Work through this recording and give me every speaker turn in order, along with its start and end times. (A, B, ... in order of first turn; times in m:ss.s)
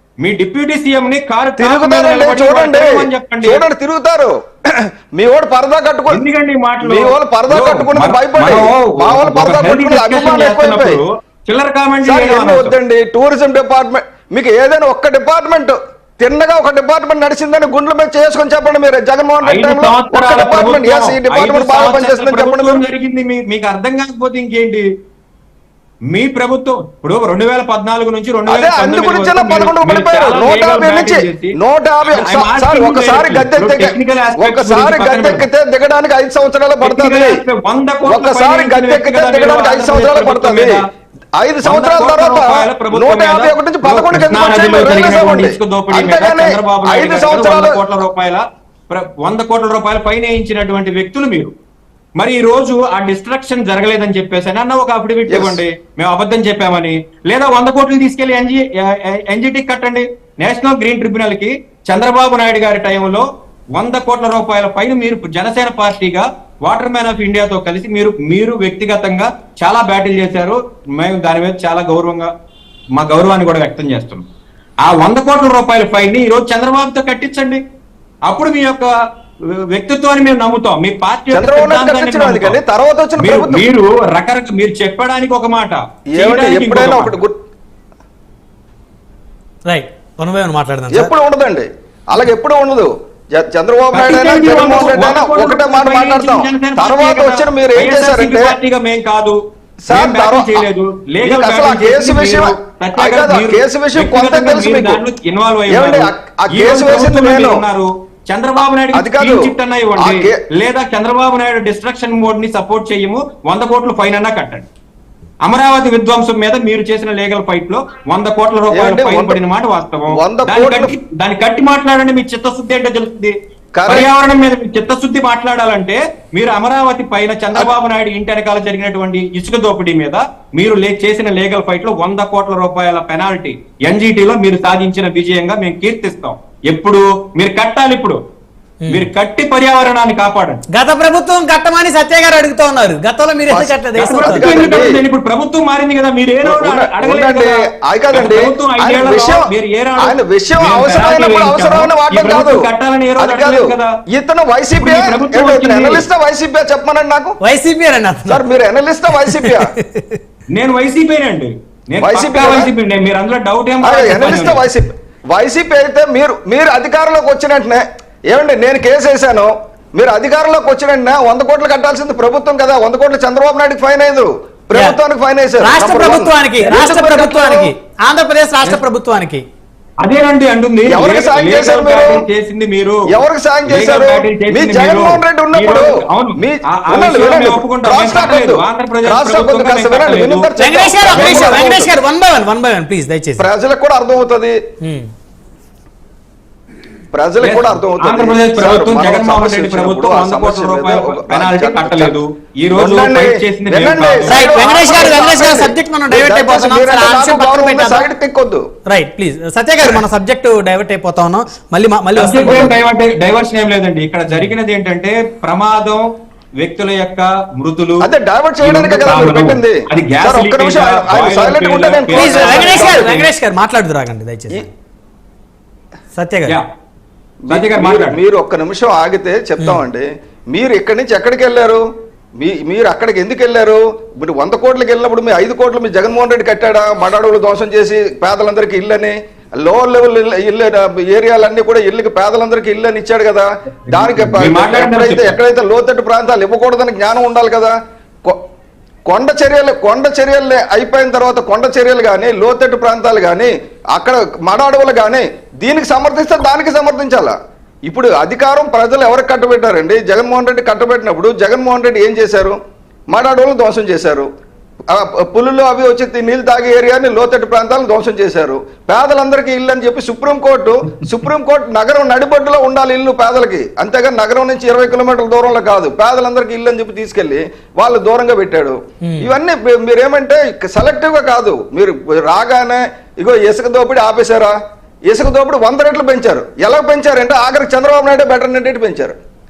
0:00.2-0:03.6 A
0:01.6-0:06.2 B
0:06.1-0:12.8 A
0:06.8-0:11.0 B
0:12.0-0:22.8 B
0:19.4-0:24.8 A
0:26.1-0:31.6 A
0:28.5-0:37.4 B
0:32.1-0:35.4 A
0:36.8-0:40.8 A
0:38.0-0:40.8 B
0:41.4-0:47.8 B
0:41.6-0:51.5 A
0:52.2-1:12.3 A
0:55.3-0:55.6 B
1:13.0-1:14.2 A
1:14.8-1:17.6 A
1:18.3-1:18.9 A
1:19.6-1:22.6 A
1:21.3-1:23.6 B
1:23.2-1:27.2 A
1:26.2-1:27.4 B
1:29.7-1:31.1 C
1:30.9-1:38.5 B
1:33.9-1:39.4 A
1:39.9-1:40.6 B
1:39.9-1:54.7 A
1:41.2-1:45.0 B
1:45.7-1:47.6 B
1:48.9-1:50.4 B
1:55.4-2:03.4 A
1:58.7-1:59.4 B
2:00.1-2:00.9 B
2:03.8-2:04.1 B
2:03.9-2:18.2 A
2:18.9-2:20.6 A
2:20.7-2:24.7 C
2:23.5-2:25.0 B
2:24.0-2:27.6 A
2:26.4-2:29.5 B
2:28.1-2:33.9 A
2:30.0-2:32.7 B
2:33.2-2:37.4 B
2:34.8-2:36.0 A
2:37.4-2:38.4 C
2:38.3-2:39.7 B
2:39.2-2:40.2 C
2:40.5-2:44.6 A
2:42.0-2:42.7 B
2:43.8-2:57.7 B
2:55.6-2:59.4 C
3:00.0-3:03.0 A
3:00.9-3:02.3 B
3:03.1-3:12.0 B
3:03.7-3:10.5 A
3:10.6-3:13.4 C
3:11.1-3:11.6 A
3:13.4-3:14.6 B
3:17.1-3:22.2 B
3:17.4-3:24.4 A
3:22.7-3:28.6 B
3:24.3-3:28.1 C
3:28.9-3:32.8 C
3:32.2-3:36.0 A
3:36.6-3:38.1 A
3:38.0-3:43.2 B
3:38.6-3:43.3 A
3:42.1-3:44.7 C
3:46.2-3:46.6 C
3:47.5-3:51.8 B
3:47.5-3:48.2 A
3:52.4-4:08.4 B
4:03.9-4:05.4 A
4:09.1-4:17.4 B
4:17.9-4:22.6 B
4:23.1-4:24.3 B
4:24.9-4:44.6 B
4:39.0-4:39.3 C
4:45.1-4:49.2 B